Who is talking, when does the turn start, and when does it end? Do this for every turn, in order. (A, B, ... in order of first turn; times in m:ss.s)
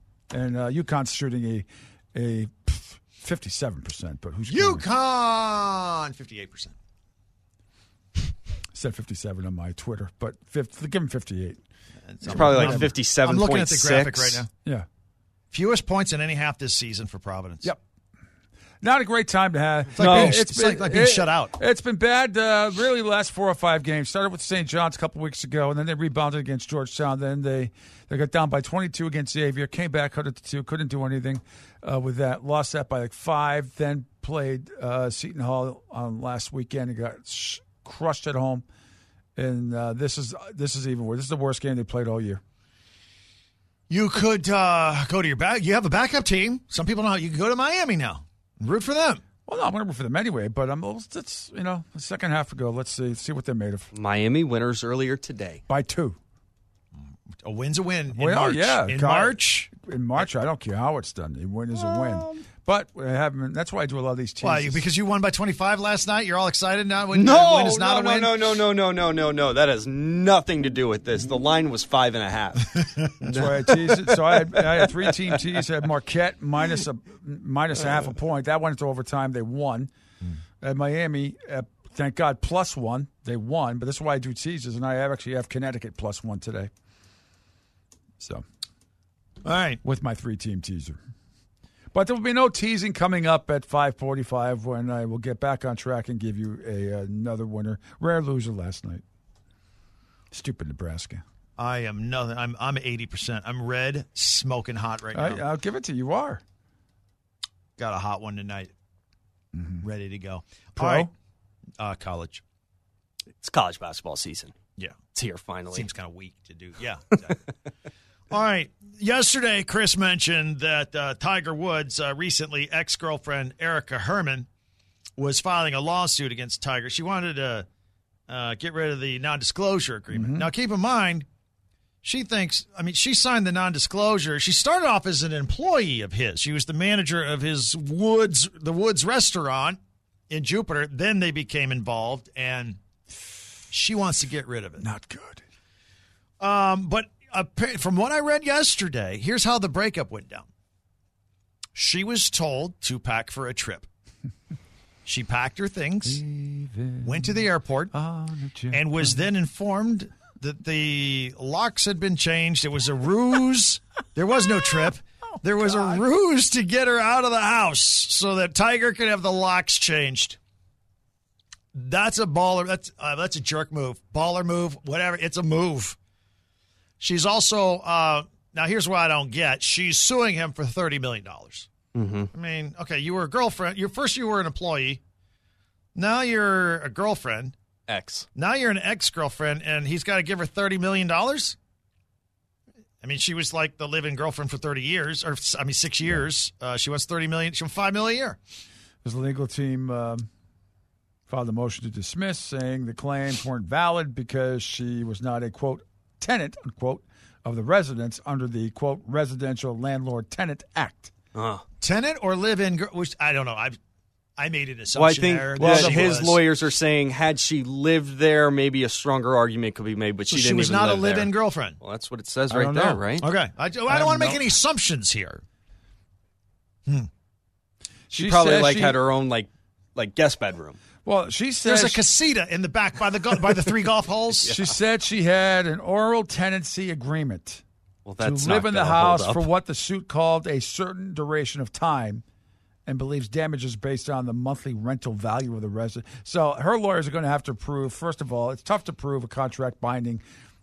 0:00.3-0:04.8 A
0:04.5-0:06.7 B
0:08.7-0:11.6 A
0:12.1-0:14.5 B
0:12.3-0:12.9 A
0:12.3-0:14.4 C
0:15.5-0:17.7 B
0:18.8-0:38.6 A
0:20.0-0:21.5 B
0:20.0-0:20.4 C
0:39.4-0:42.4 A
0:43.9-0:49.2 B
0:49.5-0:53.9 A
0:53.9-0:55.6 C
0:55.7-0:56.2 A
0:57.4-0:59.7 B
0:58.2-1:04.8 A
1:01.8-1:02.4 C
1:04.4-1:08.4 B
1:07.1-1:15.4 C
1:13.2-1:19.9 A
1:20.6-1:26.7 A
1:28.2-1:28.4 A
1:29.4-1:29.8 B
1:29.8-1:31.0 A
1:31.9-1:39.0 A
1:40.3-1:41.2 A
1:41.6-1:45.4 B
1:45.1-1:46.4 A
1:47.8-1:48.7 B
1:49.6-1:49.8 A
1:49.8-1:51.1 B
1:50.8-1:51.1 A
1:51.8-1:52.4 B
1:53.4-1:54.5 C
1:55.1-1:55.9 C
1:55.7-1:57.4 B
1:58.3-2:04.5 B
2:05.2-2:07.7 B
2:08.3-2:11.3 B
2:10.1-2:10.5 A
2:12.0-2:19.8 B
2:20.3-2:22.8 B
2:23.7-2:24.9 B
2:24.8-2:25.4 A
2:26.4-2:30.5 B
2:31.8-2:33.9 B
2:35.1-2:36.2 B
2:36.0-2:39.2 A
2:37.0-2:37.9 B
2:38.7-2:50.4 B
2:45.7-2:46.0 A
2:51.7-2:56.0 B
2:57.0-3:01.7 B
3:01.9-3:02.3 C
3:02.3-3:05.0 B
3:06.0-3:07.6 B
3:07.9-3:08.3 C
3:08.4-3:11.6 B
3:13.0-3:18.4 B
3:19.0-3:20.3 A
3:21.3-3:31.1 A
3:31.4-3:31.6 C
3:31.8-3:33.8 B
3:34.4-3:36.4 B
3:35.0-3:43.3 C
3:35.6-3:36.2 A
3:40.3-3:41.8 B
3:42.5-3:43.1 A
3:43.2-3:45.4 B
3:43.9-3:44.4 A
3:48.1-3:49.0 A
3:48.1-3:50.8 C
3:51.0-3:52.0 A
3:51.6-3:54.6 B
3:54.4-3:57.6 A
3:58.0-3:59.5 C
3:58.2-4:02.2 A
4:02.9-4:10.2 A